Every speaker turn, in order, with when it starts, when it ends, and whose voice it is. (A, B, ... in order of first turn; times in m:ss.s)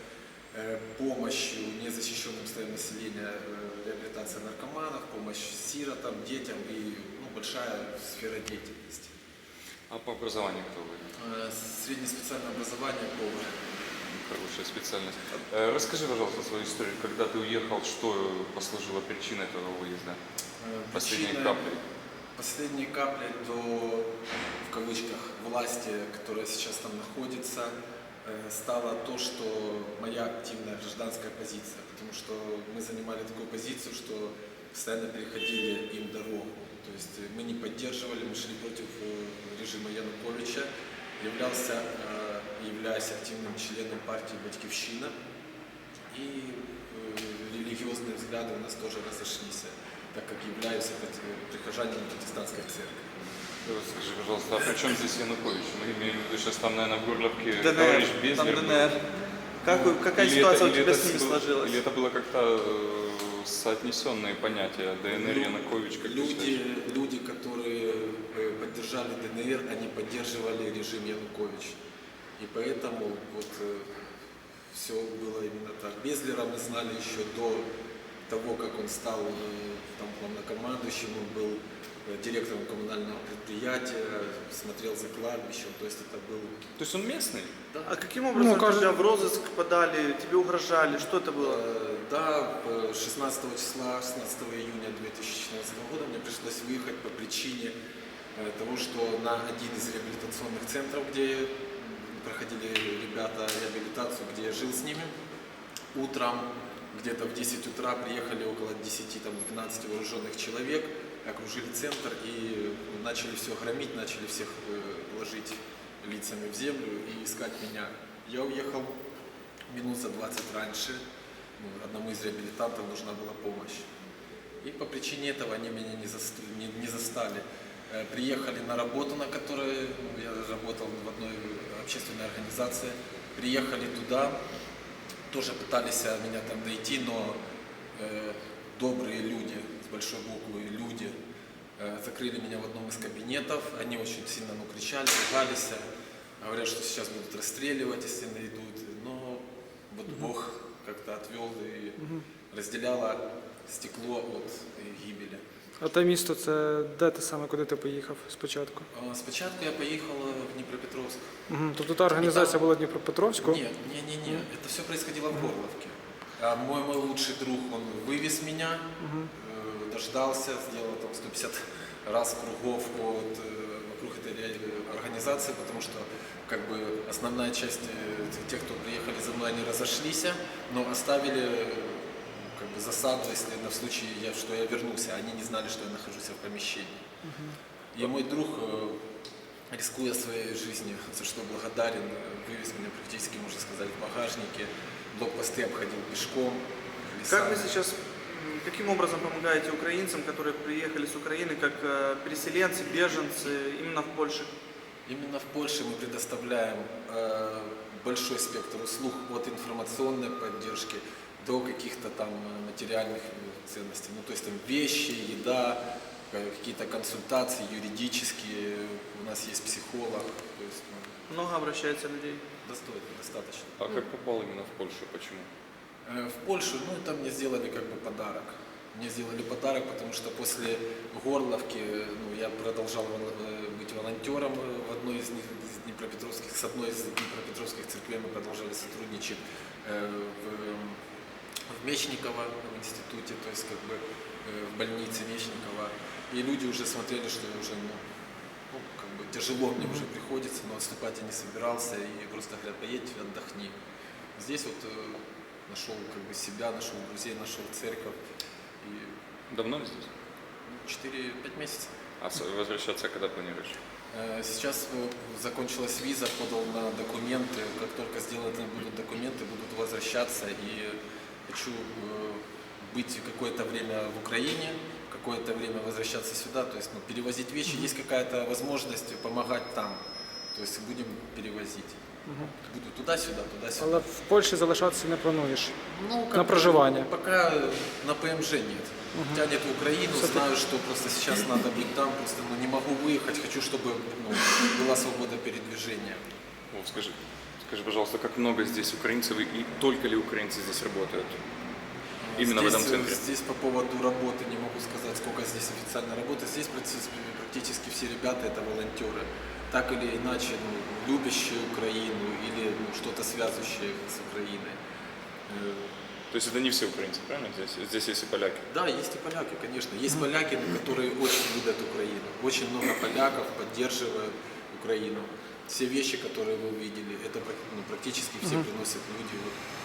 0:00.5-0:09.1 A
0:09.9-0:11.0 B
0:11.2-0:13.5 A
0:14.1-0:20.2 B
0:20.6-0:21.6 A
0:20.9-0:21.8 B
0:22.4-0:24.1 A
0:24.6-0:45.1 A
0:46.1-0:53.0 A
0:53.6-0:58.9 B
0:57.6-0:59.0 C
0:59.6-1:01.8 C
0:59.7-1:06.6 B
1:05.1-1:11.8 A
1:12.4-1:13.9 A
1:14.7-1:17.7 A
1:18.3-1:26.6 A
1:26.8-1:27.5 B
1:27.9-1:31.6 C
1:28.3-1:28.9 D
1:31.4-1:37.7 A
1:38.4-1:45.1 A
1:45.9-1:59.0 A
1:59.7-2:01.0 A
2:01.6-2:03.9 A
2:04.6-2:14.4 A
2:15.3-2:17.4 A
2:18.0-2:21.1 A
2:21.8-2:25.8 A
2:26.4-2:35.4 A
2:32.0-2:32.2 D
2:35.8-2:38.9 D
2:38.9-2:41.3 A
2:41.5-2:43.6 D
2:42.2-2:42.6 A
2:43.4-3:07.0 A
2:49.0-2:49.3 D
3:07.2-3:07.6 D
3:07.9-3:09.0 A
3:09.7-3:17.7 A
3:17.3-3:24.5 C
3:25.1-3:41.1 A
3:41.3-3:42.4 C
3:42.6-3:43.8 A
3:43.8-3:45.5 B
3:46.0-4:01.0 A
4:01.7-4:08.0 A
4:08.7-4:13.7 A
4:14.4-4:18.2 A
4:18.8-4:19.1 A
4:19.5-4:20.1 B
4:20.7-4:21.9 A
4:22.2-4:23.8 B
4:24.1-4:40.0 A
4:40.5-4:44.0 A
4:42.3-4:42.5 D
4:43.8-4:45.8 D
4:45.9-4:56.2 A
4:46.3-4:47.1 D
4:49.1-4:49.4 D
4:50.2-4:50.4 D
4:56.7-5:01.4 B
5:02.2-5:14.8 A
5:02.4-5:03.2 B
5:15.5-5:15.9 A
5:16.3-5:18.6 B
5:18.7-5:29.5 A